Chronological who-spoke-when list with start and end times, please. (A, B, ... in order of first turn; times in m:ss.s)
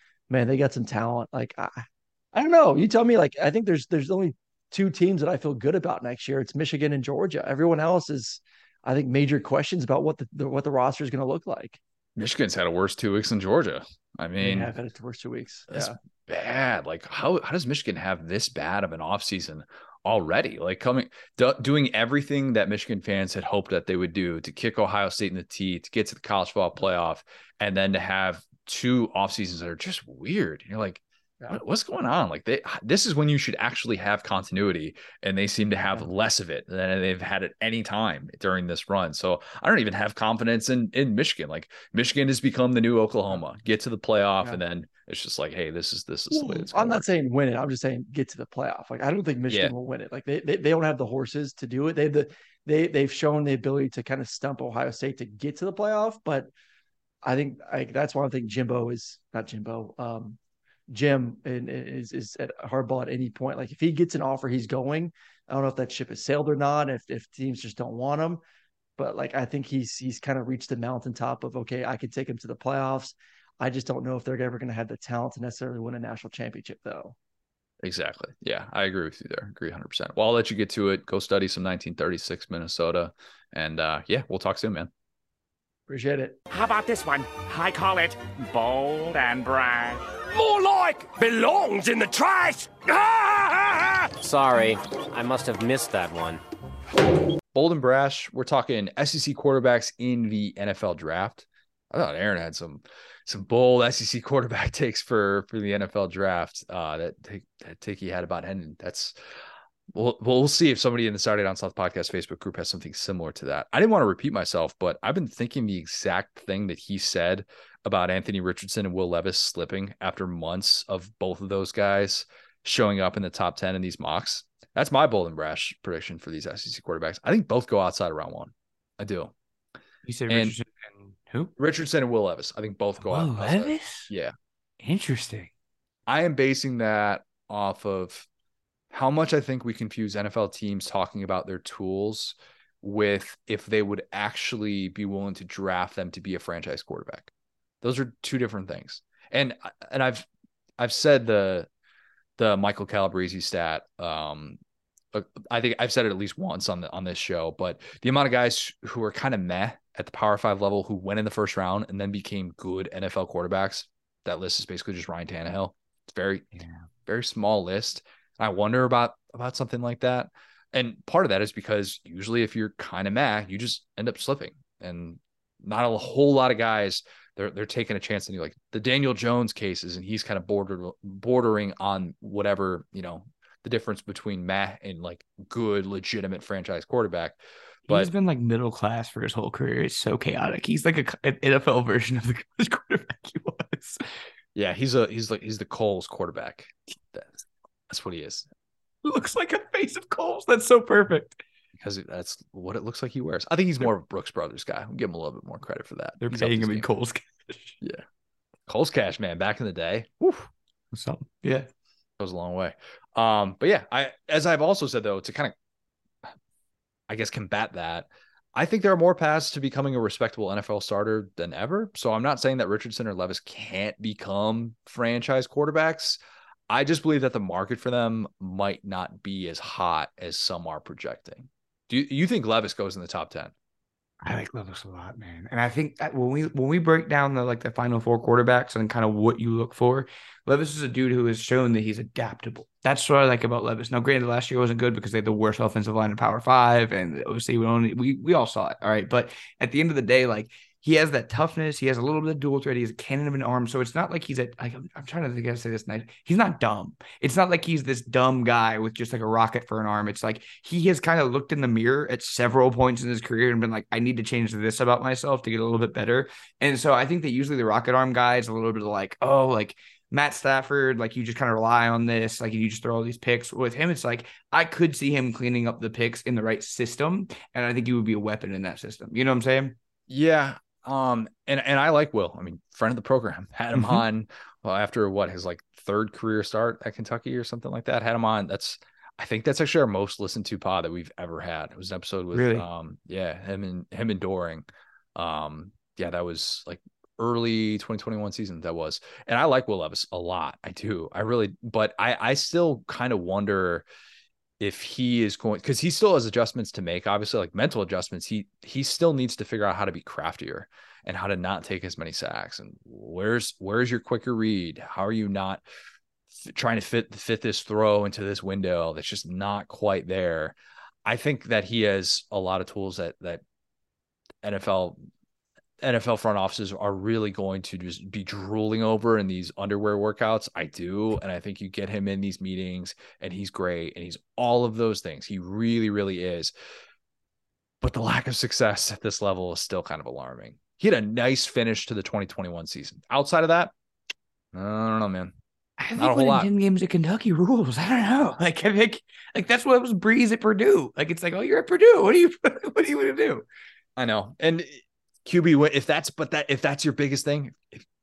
0:00.3-0:11.8 A
0:12.2-0:14.7 B
0:14.4-0:16.0 A
0:15.7-0:47.0 B
0:46.3-0:56.5 A
0:57.2-1:00.4 A
1:00.9-1:08.4 A
1:09.0-1:17.2 A
1:17.8-1:24.9 B
1:25.9-1:26.4 A
1:26.5-1:34.7 C
1:34.3-1:36.4 D
1:37.5-1:49.1 B
1:50.0-2:09.3 B
2:10.0-2:11.5 E
2:10.3-2:10.6 B
2:11.6-2:14.3 B
2:13.0-2:14.1 E
2:14.8-2:15.5 E
2:16.1-2:18.3 B
2:18.9-2:27.3 B
2:27.8-2:30.3 B
2:30.8-2:31.7 B
2:32.4-2:34.6 B
2:35.1-3:08.1 B
3:07.9-3:14.0 E
3:14.6-3:18.5 B
3:19.0-3:21.4 E
3:21.8-3:26.9 B
3:26.2-3:27.8 E
3:28.7-3:30.5 B
3:30.9-3:31.7 E
3:32.2-3:35.5 B
3:37.1-3:53.5 B
3:54.2-4:39.8 E
4:40.1-5:03.8 B
4:43.8-4:44.0 E
4:52.3-4:52.7 E
5:04.6-5:15.6 B
5:16.4-5:23.4 B
5:24.4-5:25.0 B
5:25.8-5:36.5 B
5:37.8-5:43.7 B
5:44.5-5:45.3 B
5:45.8-5:53.4 E
5:46.0-5:46.5 B
5:54.0-5:57.8 B